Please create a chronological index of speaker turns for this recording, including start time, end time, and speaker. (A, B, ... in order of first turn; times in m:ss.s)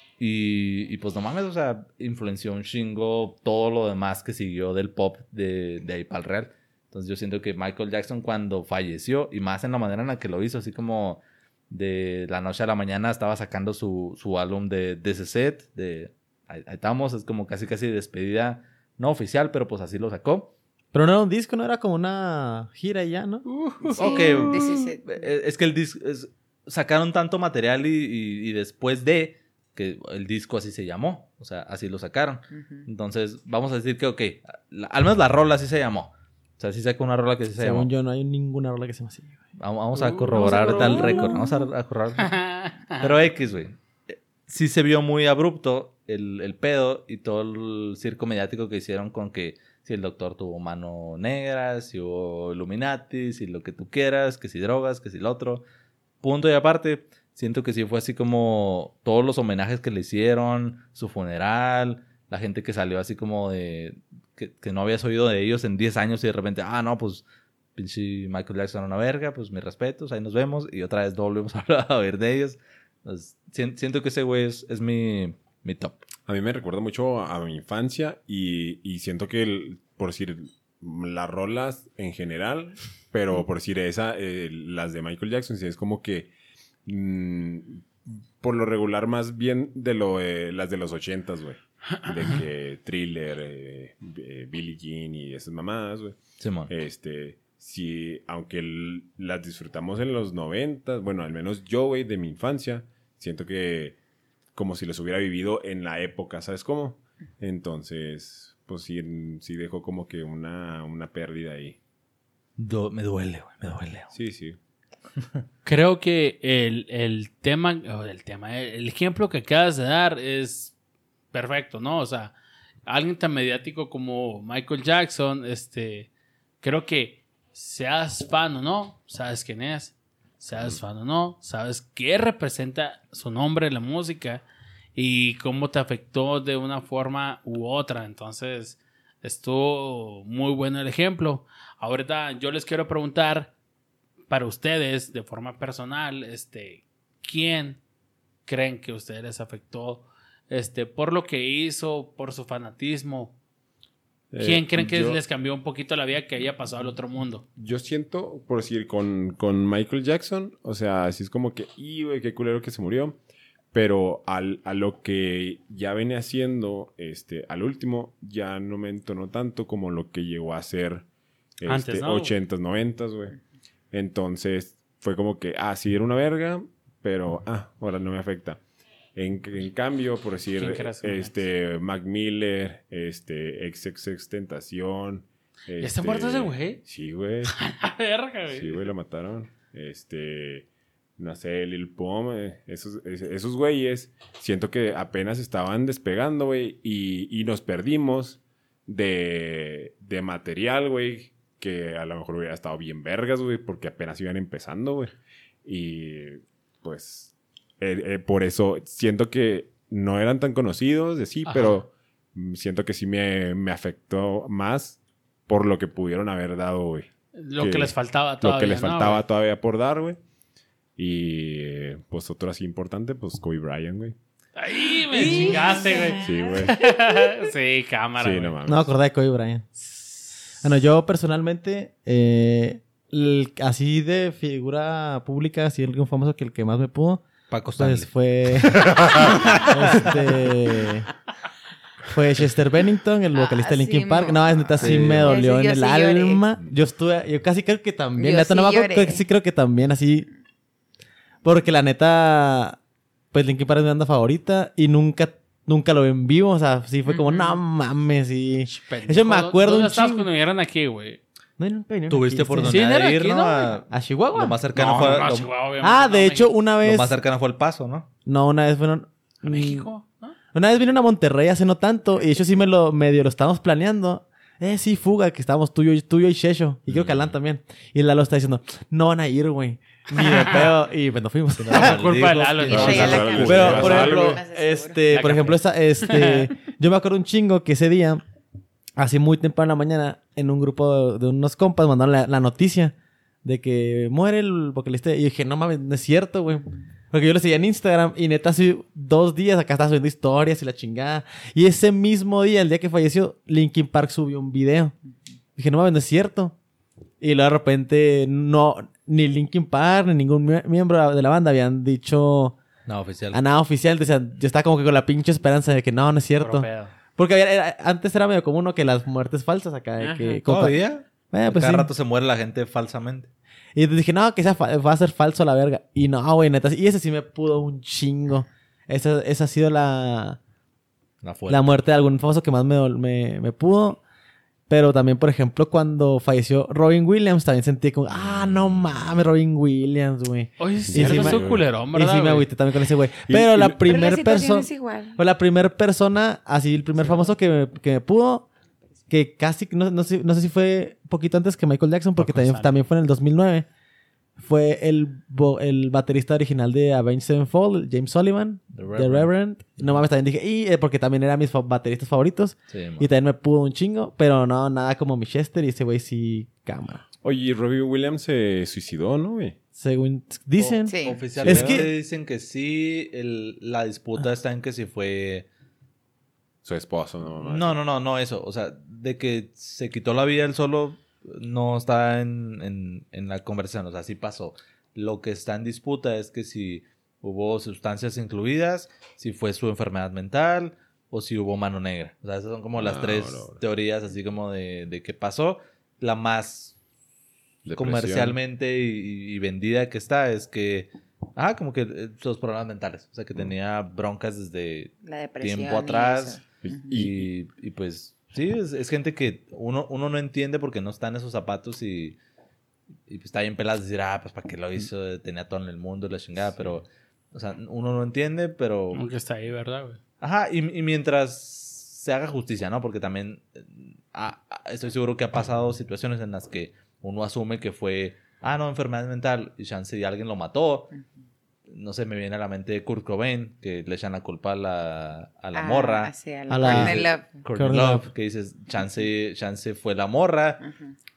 0:00.2-0:20.5 A
0:20.9-0:23.4 B
0:23.5-0:37.9 A
0:23.9-0:25.2 C
0:32.6-0:32.9 C
0:37.6-0:39.4 B
0:39.6-0:42.3 A
0:40.0-0:41.4 D
0:40.3-0:41.4 B
0:42.2-0:43.1 D
0:43.0-0:43.8 A
0:44.4-0:55.6 A
0:56.2-1:07.2 A
1:07.8-1:16.0 A
1:16.3-1:26.3 E
1:26.8-1:44.0 E
1:36.4-1:36.7 A
1:44.5-1:51.8 E
1:52.6-1:54.1 A
1:54.1-1:54.6 E
1:55.6-2:00.7 D
2:01.3-2:02.3 D
2:02.8-2:06.1 D
2:06.6-2:14.4 D
2:10.5-2:10.8 E
2:14.9-2:23.5 D
2:24.3-2:27.8 D
2:28.4-2:33.3 D
2:34.3-2:35.2 E
2:34.4-2:37.4 D
2:37.6-2:43.2 E
2:43.7-2:51.0 E
2:51.6-2:53.4 E
2:51.7-2:52.3 D
2:53.9-2:58.6 E
2:59.1-3:07.5 E
3:00.6-3:01.3 D
3:05.8-3:06.8 D
3:07.4-3:08.9 D
3:08.5-3:40.2 E
3:31.4-3:31.8 D
3:37.4-3:39.2 D
3:41.0-3:44.2 E
3:44.6-3:48.6 D
3:45.1-3:46.9 C
3:46.2-3:46.8 E
3:48.2-3:48.9 E
3:48.6-3:49.7 B
3:49.8-3:50.6 D
3:50.6-3:57.2 B
3:57.5-3:58.1 A
3:57.8-4:01.0 B
3:59.5-4:00.1 A
4:02.1-4:10.3 B
4:03.4-4:06.4 C
4:04.8-4:05.3 A
4:08.2-4:09.2 C
4:11.4-4:12.8 B
4:13.3-4:20.3 B
4:17.0-4:17.6 C
4:18.6-4:21.2 D
4:21.6-4:22.8 B
4:22.1-4:25.5 A
4:22.6-4:23.8 D
4:23.9-4:24.6 B
4:24.7-4:26.5 D
4:25.8-4:27.1 B
4:26.8-4:28.1 A
4:28.2-4:29.9 B
4:29.4-4:30.3 D
4:30.5-4:42.3 B
4:36.9-4:37.3 E
4:40.1-4:40.7 D
4:41.6-4:44.1 A
4:41.7-4:43.8 D
4:42.7-4:44.4 E
4:42.7-4:45.0 C
4:43.5-4:48.2 B
4:45.1-4:46.5 D
4:49.0-5:04.9 B
5:05.6-5:06.6 B
5:07.2-5:12.6 B
5:12.9-5:13.4 A
5:13.3-5:21.9 B
5:16.4-5:16.9 D
5:20.4-5:23.3 A
5:23.7-5:30.4 B
5:31.2-5:31.7 A
5:31.5-5:34.0 B
5:34.7-5:48.5 B
5:40.6-5:42.5 D
5:40.9-5:41.7 E
5:43.3-5:43.8 E
5:43.8-5:45.2 C
5:49.1-5:53.6 B
5:52.2-5:52.8 D
5:54.4-6:07.0 B
5:58.7-5:59.3 A
6:02.7-6:03.1 A
6:07.2-6:09.6 E
6:09.8-6:11.9 B
6:10.6-6:15.5 A
6:10.9-6:11.2 C
6:11.4-6:11.9 E
6:16.6-6:17.8 E
6:17.3-6:36.8 A
6:32.8-6:33.6 E
6:37.6-6:38.4 E
6:37.7-6:52.2 A
6:45.0-6:46.9 C
6:46.6-6:47.3 E
6:53.1-6:59.0 A
6:58.9-7:00.0 D
7:00.2-7:10.9 A
7:11.7-7:20.6 A
7:15.5-7:17.4 C
7:16.5-7:18.1 B
7:20.6-7:20.9 C